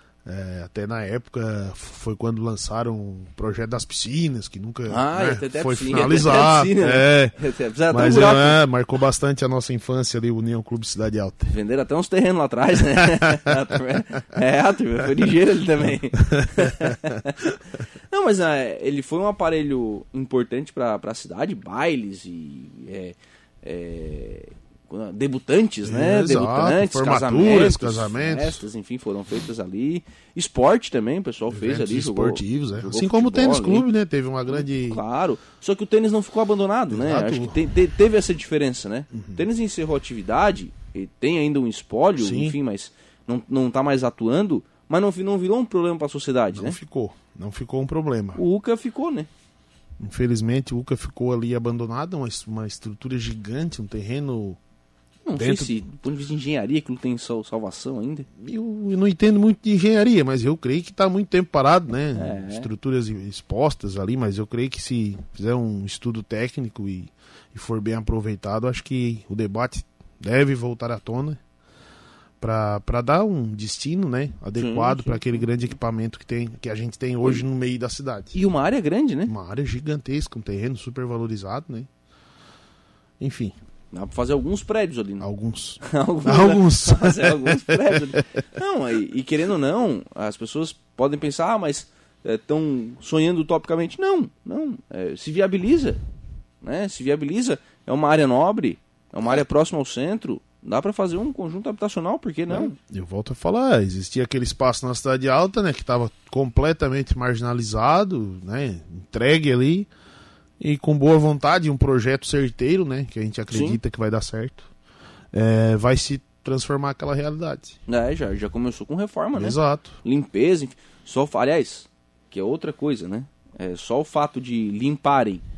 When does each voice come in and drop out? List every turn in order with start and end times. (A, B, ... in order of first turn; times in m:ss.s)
0:00.2-0:07.4 A
0:04.9-0:08.6 B
0:07.9-0:11.5 A
0:11.5-0:17.3 B
0:16.2-0:17.6 A
0:18.1-0:33.9 B
0:25.8-0:28.6 A
0:31.5-0:35.0 A
0:34.5-0:46.8 B
0:36.9-0:37.7 A
0:39.1-0:39.4 A
0:42.2-0:42.6 A
0:46.5-0:48.4 A
0:48.4-0:49.3 B
0:50.0-0:54.6 A
0:55.3-0:58.3 B
0:55.4-0:55.8 A
0:58.4-1:11.4 A
1:02.2-1:02.7 B
1:12.4-1:18.4 A
1:14.5-1:15.3 B
1:18.3-1:19.3 B
1:19.2-1:21.9 A
1:23.2-1:23.5 A
1:23.9-1:25.2 B
1:25.2-1:28.1 A
1:25.8-1:36.0 B
1:36.6-1:42.8 B
1:42.5-1:49.9 A
1:50.6-1:54.7 A
1:53.5-1:53.8 B
1:55.3-1:57.8 A
1:57.9-2:05.4 B
1:59.3-2:00.0 A